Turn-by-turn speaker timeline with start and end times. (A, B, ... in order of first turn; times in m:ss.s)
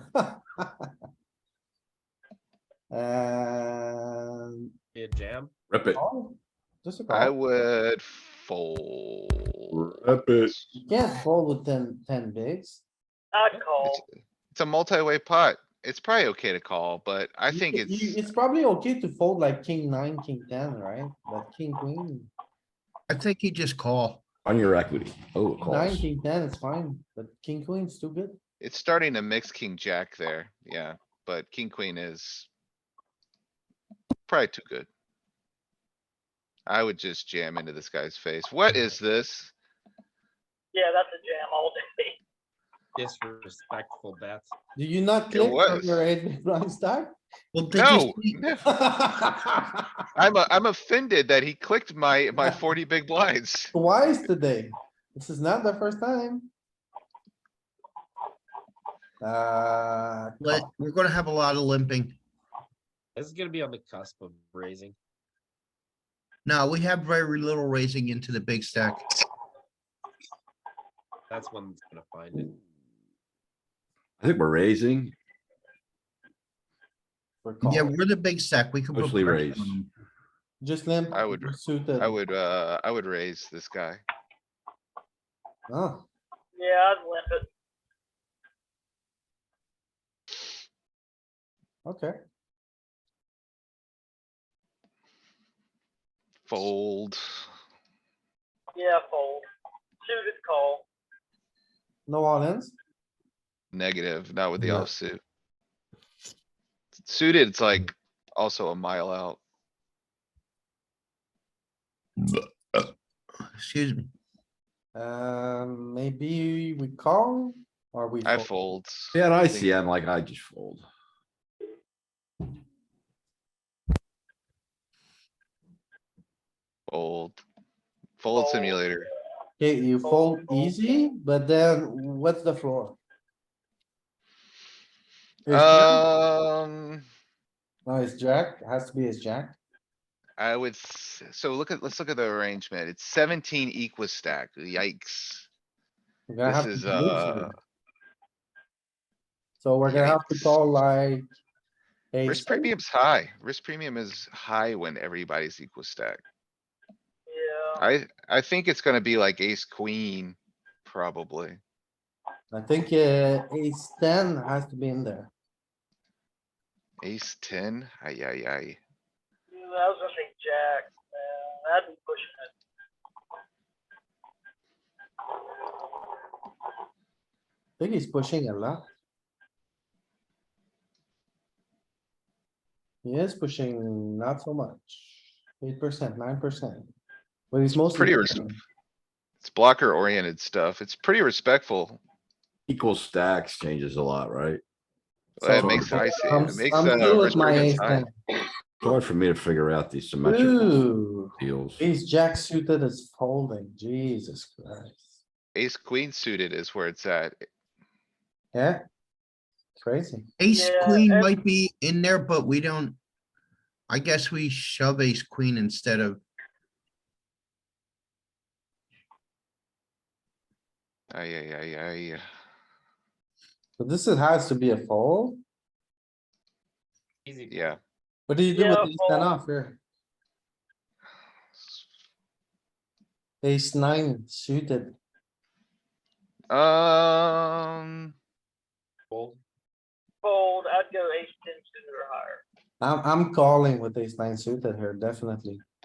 0:00.1-0:00.7 A
0:02.9-0:04.7 A
0:04.9-0:05.5 B
0:05.7-0:06.0 C
0:05.9-0:07.3 A
0:07.1-0:09.8 D
0:09.7-0:10.5 C
0:10.8-0:12.8 A
0:13.3-0:14.0 E
0:13.8-0:18.2 D
0:17.5-0:22.3 A
0:23.1-0:24.2 F
0:24.4-0:26.1 C
0:25.6-0:28.4 A
0:28.6-0:32.5 D
0:34.3-0:34.9 D
0:36.7-0:39.5 D
0:40.7-0:42.2 E
0:43.0-0:44.5 B
0:44.8-0:47.1 A
0:45.3-0:46.0 D
0:47.5-0:48.4 F
0:47.7-0:48.6 D
0:48.6-0:49.9 A
0:50.2-0:53.7 D
0:53.7-0:56.5 A
0:59.2-1:00.7 A
1:00.4-1:02.2 F
1:03.2-1:05.0 B
1:06.4-1:09.1 F
1:11.3-1:12.6 B
1:14.2-1:15.1 C
1:17.4-1:17.9 A
1:17.6-1:19.9 F
1:18.9-1:19.8 C
1:20.6-1:22.2 A
1:21.1-1:24.0 D
1:25.7-1:26.0 A
1:26.5-1:27.4 E
1:31.8-1:32.1 A
1:36.4-1:37.2 D
1:38.7-1:39.4 E
1:40.0-1:40.8 E
1:42.1-1:42.7 A
1:43.7-1:45.2 D
1:47.0-1:49.4 D
1:52.2-1:52.9 F
1:53.6-1:54.1 F
1:54.9-1:58.5 A
1:58.2-1:59.7 D
1:59.1-2:00.9 C
2:06.9-2:07.4 D
2:08.2-2:09.1 D
2:08.3-2:08.8 E
2:09.6-2:13.0 A
2:10.0-2:10.9 E
2:15.4-2:16.0 A
2:15.5-2:17.0 D
2:17.8-2:19.6 A
2:20.4-2:25.5 D
2:26.3-2:27.5 A
2:26.4-2:27.5 D
2:29.6-2:31.2 A
2:29.8-2:30.6 D
2:32.1-2:32.7 A
2:32.2-2:36.2 D
2:37.3-2:37.8 E
2:37.8-2:41.6 D
2:42.5-2:45.3 A
2:47.0-2:48.8 D
2:49.5-2:52.5 E
2:57.8-2:58.8 A
3:03.0-3:05.1 A
3:05.6-3:06.9 A
3:07.5-3:08.6 A
3:07.7-3:08.5 D
3:09.4-3:12.0 D
3:12.7-3:14.6 C
3:15.4-3:18.0 D
3:15.4-3:18.1 A
3:15.5-3:16.0 C
3:18.8-3:20.8 C
3:20.2-3:25.1 A
3:21.4-3:21.8 C
3:25.5-3:27.4 D
3:28.5-3:28.8 A
3:29.8-3:30.3 A
3:30.4-3:33.0 F
3:30.5-3:31.3 E
3:33.9-3:36.2 F
3:41.1-3:42.2 D
3:43.8-3:45.4 A
3:47.2-3:47.6 B
3:47.5-3:47.8 D
3:48.3-3:49.8 A
3:48.5-3:49.3 E
3:53.4-3:55.0 A
3:56.5-3:58.1 D
3:59.1-3:59.4 B
4:00.2-4:02.4 E
4:02.8-4:05.6 A